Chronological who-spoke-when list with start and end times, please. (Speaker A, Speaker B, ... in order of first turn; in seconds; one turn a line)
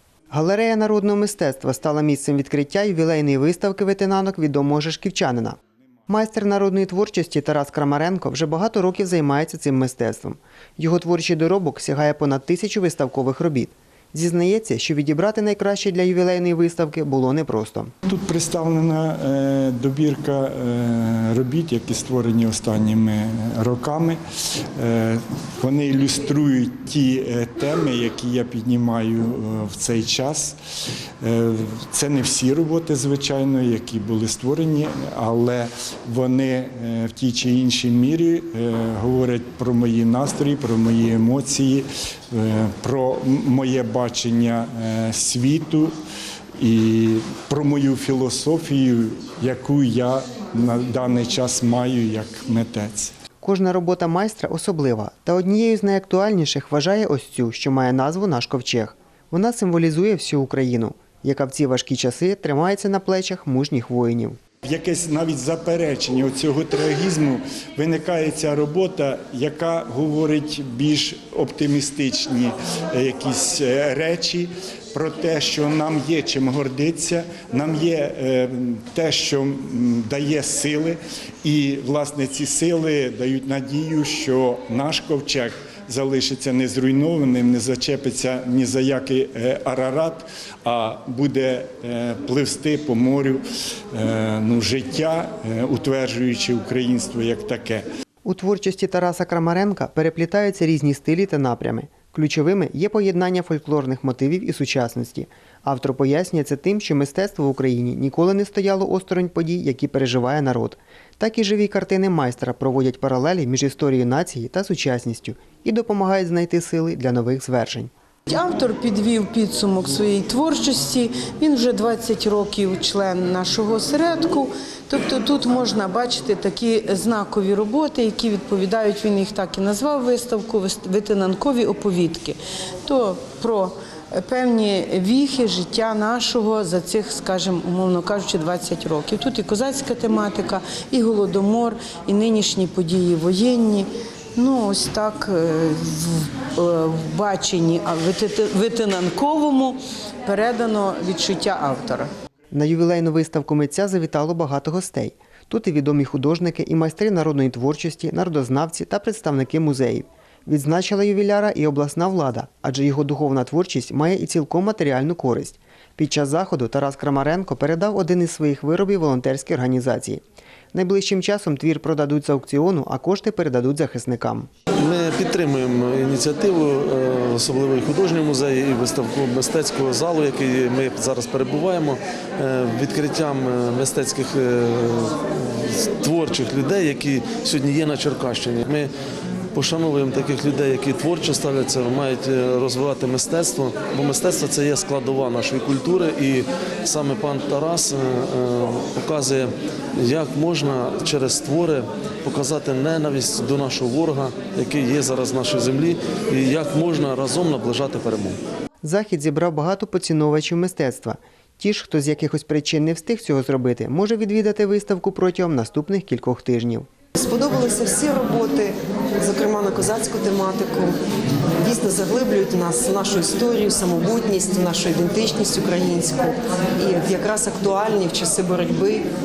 Speaker A: 0.3-5.6
Speaker A: 6.1-17.9
Speaker B: 18.1-24.2
Speaker B: 24.8-30.6
Speaker B: 31.2-45.9
Speaker B: 46.6-53.1
Speaker A: 53.4-64.4
Speaker B: 64.6-93.4
Speaker B: 93.9-97.8
Speaker A: 98.2-117.9
Speaker C: 118.3-152.1
Speaker A: 152.5-174.5
Speaker D: 174.8-188.9
Speaker D: 189.5-208.4
Speaker A: 208.8-216.9
Speaker E: 217.2-220.9
Speaker E: 221.6-229.1